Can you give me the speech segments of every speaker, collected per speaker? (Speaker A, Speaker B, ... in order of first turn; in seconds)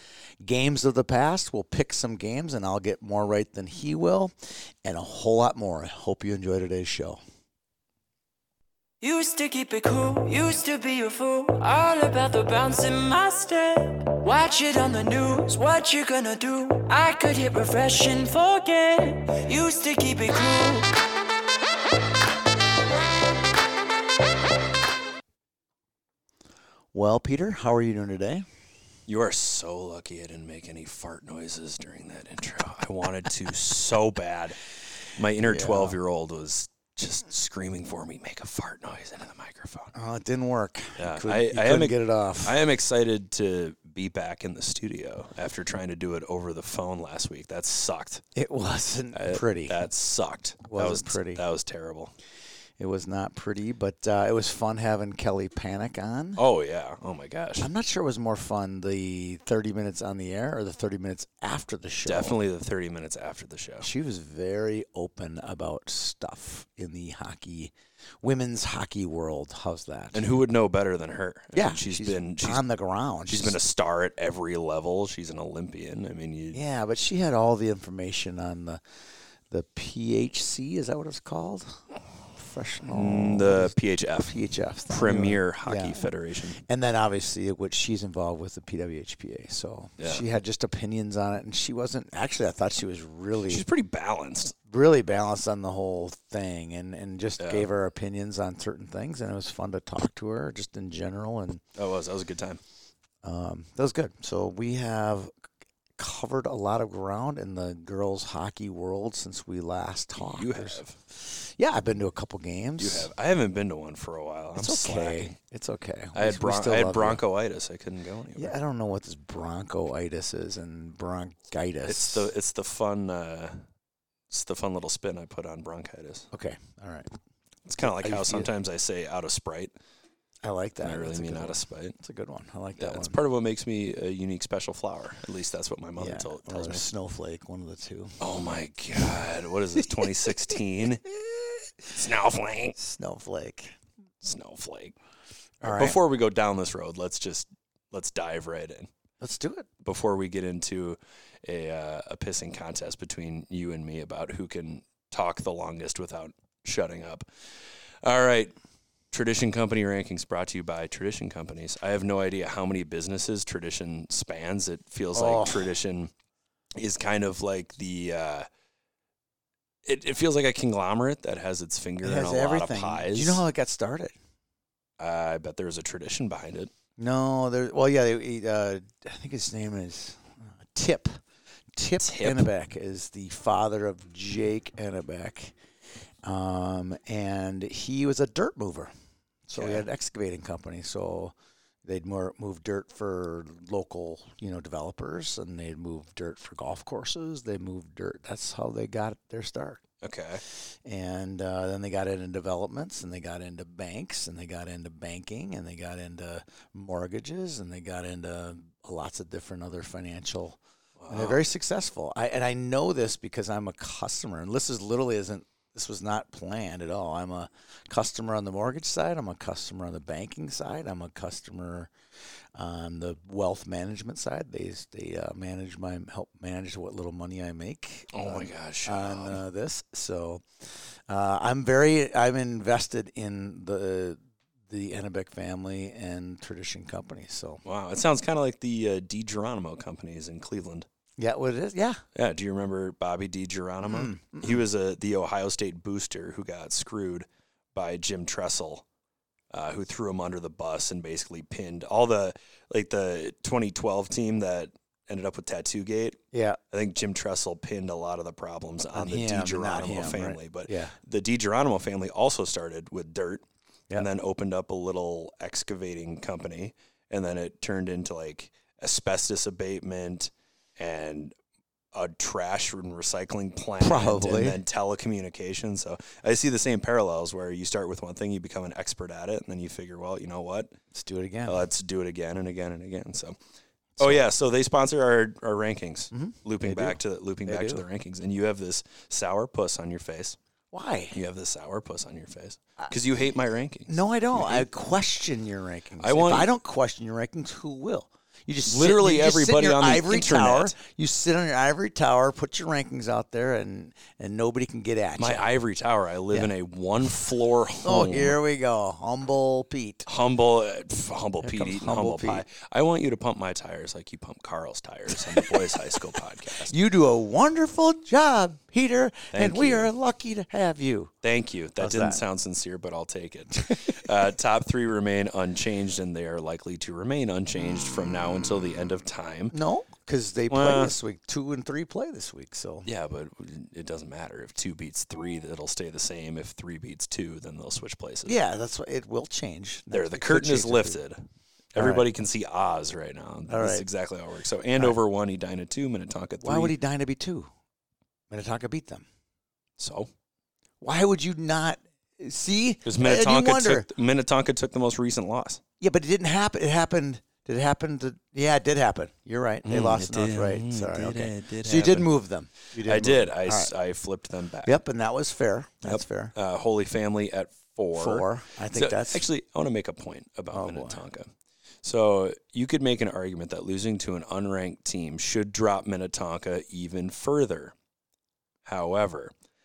Speaker A: 0.4-7.2, 26.9-28.4, 35.4-36.0, 39.9-42.6, 48.4-49.8, 50.7-51.4, 52.8-56.4, 57.6-62.4, 63.8-70.2, 71.5-73.6, 76.5-78.8, 79.5-81.8, 82.4-86.1, 86.6-93.6, 94.7-101.6, 103.2-105.3, 106.0-113.1, 114.5-117.2, 118.3-122.3, 126.3-127.1, 127.8-128.5, 130.4-133.2, 135.9-138.2, 142.8-143.8, 145.6-146.0, 149.2-149.7, 165.1-165.7, 172.0-174.1, 177.0-181.1, 181.8-185.5, 186.2-188.9, 189.4-191.3, 191.8-199.8, 200.8-210.6, 211.1-221.9, 222.5-237.6, 241.2-242.0, 243.8-244.6, 256.3-256.6, 258.9-260.9, 273.8-274.6, 280.9-281.6, 284.0-284.2, 286.1-287.8, 290.7-291.2, 293.9-305.4, 307.8-310.1, 311.4-312.4, 315.2-316.0, 316.6-321.1, 321.8-322.2, 329.5-332.9, 338.2-341.0, 341.8-342.0, 343.5-343.9, 346.4-347.5, 348.3-349.1, 350.8-353.9, 355.8-363.7, 364.6-366.3, 367.9-369.2, 370.5-371.0
Speaker B: 9.0-20.9
Speaker C: 29.1-34.6, 35.1-39.9, 41.0-48.2, 49.1-52.1, 56.4-57.7, 62.0-63.9, 70.1-72.6, 73.3-76.6, 82.9-86.6, 90.0-90.2, 93.5-94.5, 97.4-97.7, 101.8-102.6, 110.2-111.0, 112.8-115.3, 116.1-118.5, 121.8-123.6, 124.3-126.3, 127.7-129.7, 130.8-131.9, 132.8-136.9, 138.2-141.0, 141.9-142.8, 144.2-144.9, 145.6-148.9, 149.8-157.2, 158.0-158.5, 159.1-166.1, 166.7-168.5, 169.8-173.4, 175.0-176.7, 182.0-182.5, 189.6-189.8, 200.0-200.4, 211.0-211.4, 228.1-229.4, 237.6-240.9, 242.1-248.8, 249.5-256.2, 256.7-271.4, 271.9-280.8, 281.5-283.4, 284.0-290.4, 291.1-294.7, 296.0-296.5, 298.6-300.8, 305.2-308.4, 310.1-316.7, 319.3-319.9, 321.2-329.5, 330.5-330.9, 332.8-338.4, 339.9-341.2, 341.7-346.8, 349.8-350.1, 352.8-355.6, 359.6-362.1, 362.8-364.7, 365.8-371.3, 371.8-377.7, 378.6-379.3